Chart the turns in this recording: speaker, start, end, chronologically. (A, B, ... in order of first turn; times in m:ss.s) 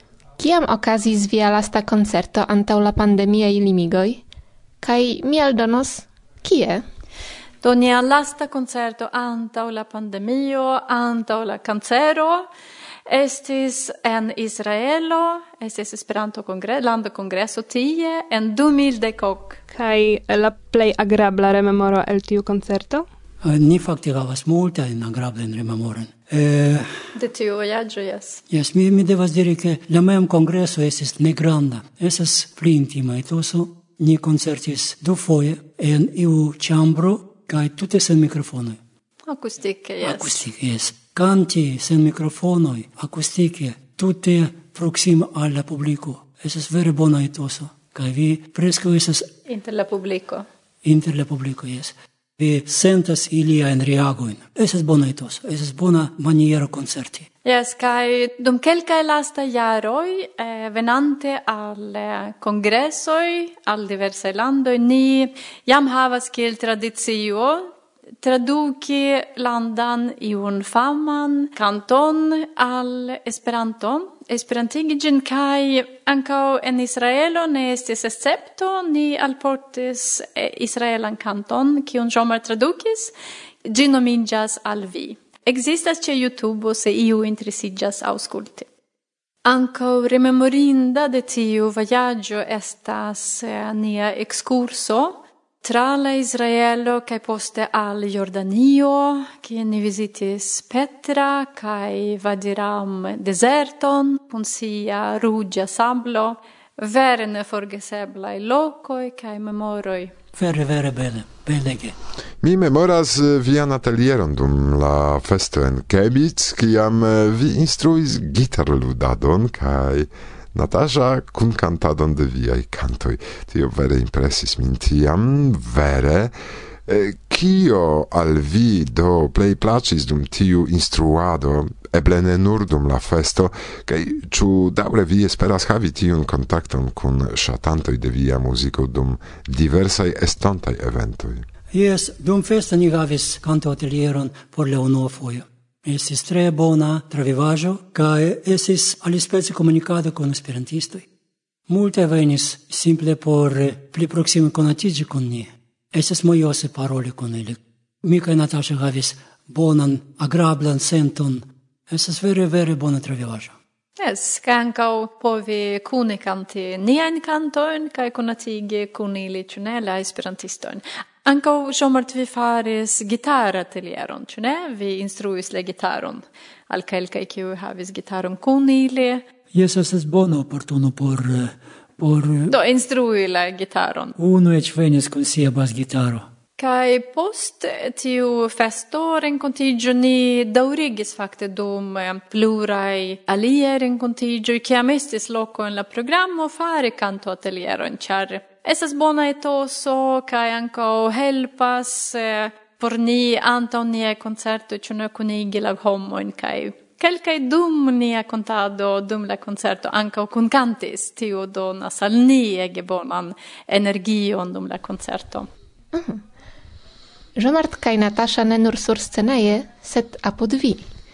0:00.4-0:04.2 A
0:04.8-0:06.8 A
0:07.6-0:12.5 B
0:13.1-0:19.6 B
0:19.7-0:23.1 C
0:23.4-0:26.9 D
0:27.2-0:28.4 B
0:28.5-0:38.8 D
0:39.3-0:40.4 B
0:40.0-0:49.3 D
0:49.5-0:50.4 B
0:50.8-0:57.3 D
0:57.4-1:07.7 B
1:08.2-1:23.1 B
1:23.7-1:28.7 B
1:29.4-1:50.1 B
1:50.4-1:52.0 D
1:52.4-2:21.5 E
2:21.7-2:31.1 D
2:31.7-2:43.5 D
2:44.0-2:59.2 B
2:59.5-3:02.6 D
3:02.5-3:04.2 B
3:04.2-3:06.3 D
3:06.6-3:35.5 B
3:35.9-3:36.2 A
3:37.4-3:40.8 A